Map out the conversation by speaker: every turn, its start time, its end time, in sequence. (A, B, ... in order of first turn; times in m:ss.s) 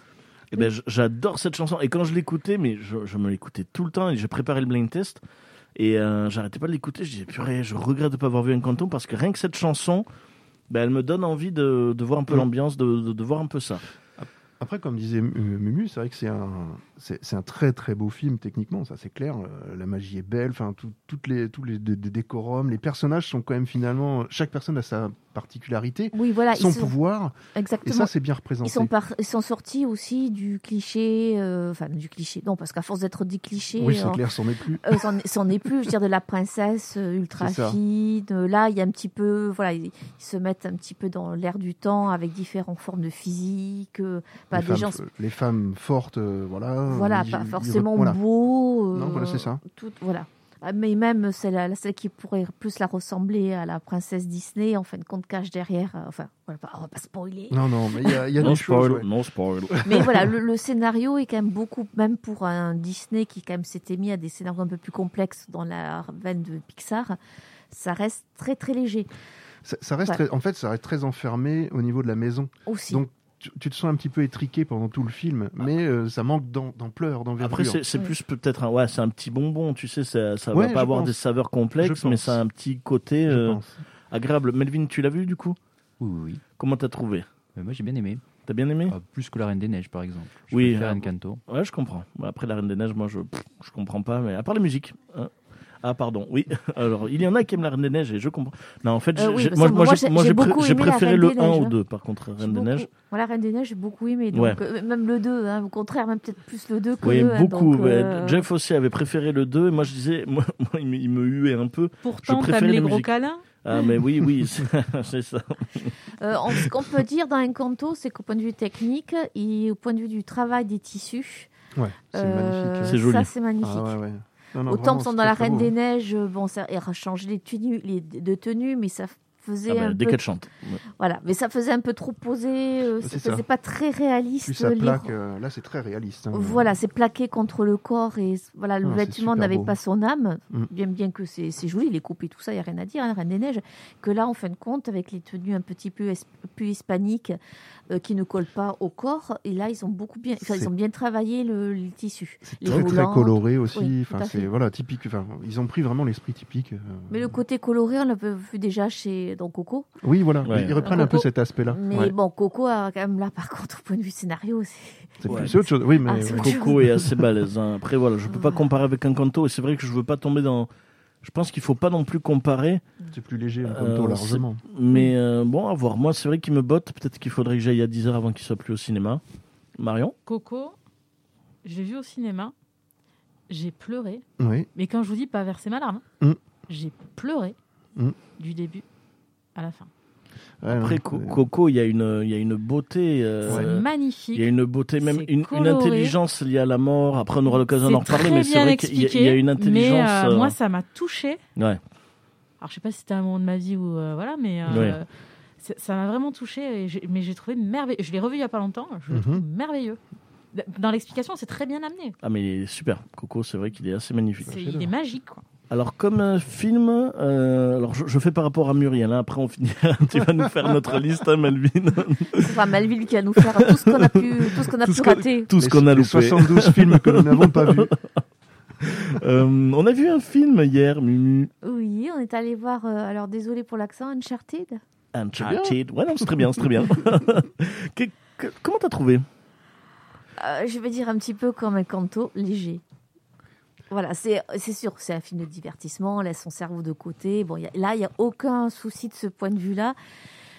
0:00.5-0:05.2 A
0:05.8-0:10.0 A
0:10.7-0:13.8 A
0:14.2-0:28.9 B
0:26.1-0:26.9 C
0:27.6-0:28.1 C
0:28.6-0:34.2 C
0:33.8-0:35.0 B
0:34.8-0:45.0 C
0:37.4-0:37.8 B
0:44.5-0:48.2 B
0:46.9-0:58.6 C
0:48.9-0:49.6 B
0:57.5-0:59.1 B
0:58.4-0:59.8 A
0:59.7-1:00.1 B
0:59.9-1:07.2 C
1:07.7-1:09.1 C
1:09.6-1:17.8 B
1:12.7-1:13.0 C
1:17.4-1:23.6 A
1:20.5-1:21.2 B
1:21.8-1:22.4 B
1:23.3-1:23.8 B
1:24.1-1:25.6 A
1:26.0-1:26.4 D
1:26.6-1:27.3 A
1:27.6-1:28.2 D
1:28.4-1:28.9 A
1:28.9-1:31.4 D
1:30.5-1:35.3 A
1:35.8-1:42.9 A
1:39.2-1:41.8 C
1:42.4-1:48.4 C
1:44.3-1:44.6 A
1:47.0-1:55.9 A
1:52.0-1:53.4 E
1:56.2-2:01.5 C
2:01.8-2:03.0 B
2:02.1-2:04.0 C
2:02.8-2:03.3 A
2:03.6-2:05.7 B
2:04.7-2:10.2 C
2:09.7-2:10.8 A
2:11.0-2:15.1 C
2:13.0-2:13.4 B
2:14.4-2:16.7 B
2:16.3-2:27.4 C
2:18.8-2:19.7 B
2:27.9-2:34.5 C
2:30.4-2:30.7 B
2:32.4-2:37.4 B
2:32.6-2:33.0 A
2:37.1-2:39.9 C
2:40.0-2:42.1 B
2:40.4-2:41.1 A
2:40.8-2:47.0 C
2:45.2-2:47.1 B
2:45.3-2:45.5 A
2:46.3-2:50.7 A
2:48.3-2:48.6 C
2:51.2-2:52.8 A
2:53.1-2:54.6 B
2:53.6-2:59.2 A
2:59.8-3:00.1 A
3:00.3-3:00.8 E
3:01.6-3:02.5 E
3:03.5-3:04.2 E
3:04.4-3:04.7 B
3:04.8-3:06.0 E
3:06.7-3:07.6 E
3:08.4-3:08.8 E
3:09.6-3:09.9 E
3:10.6-3:11.4 B
3:10.7-3:20.6 A
3:13.4-3:14.5 E
3:15.0-3:16.1 E
3:17.8-3:21.4 E
3:22.6-3:25.1 E
3:24.7-3:25.0 A
3:24.7-3:24.9 B
3:25.6-3:30.0 E
3:29.1-3:29.4 B
3:30.5-3:32.1 E
3:32.2-3:34.6 A
3:34.4-3:34.9 B
3:34.4-3:35.4 E
3:35.7-3:42.6 A
3:42.4-3:45.5 C
3:43.4-3:48.0 A
3:45.6-3:47.9 B
3:48.8-3:51.5 A
3:51.6-3:54.8 C
3:55.1-3:59.2 A
3:55.4-3:55.8 B
4:00.4-4:02.8 C
4:03.9-4:10.0 C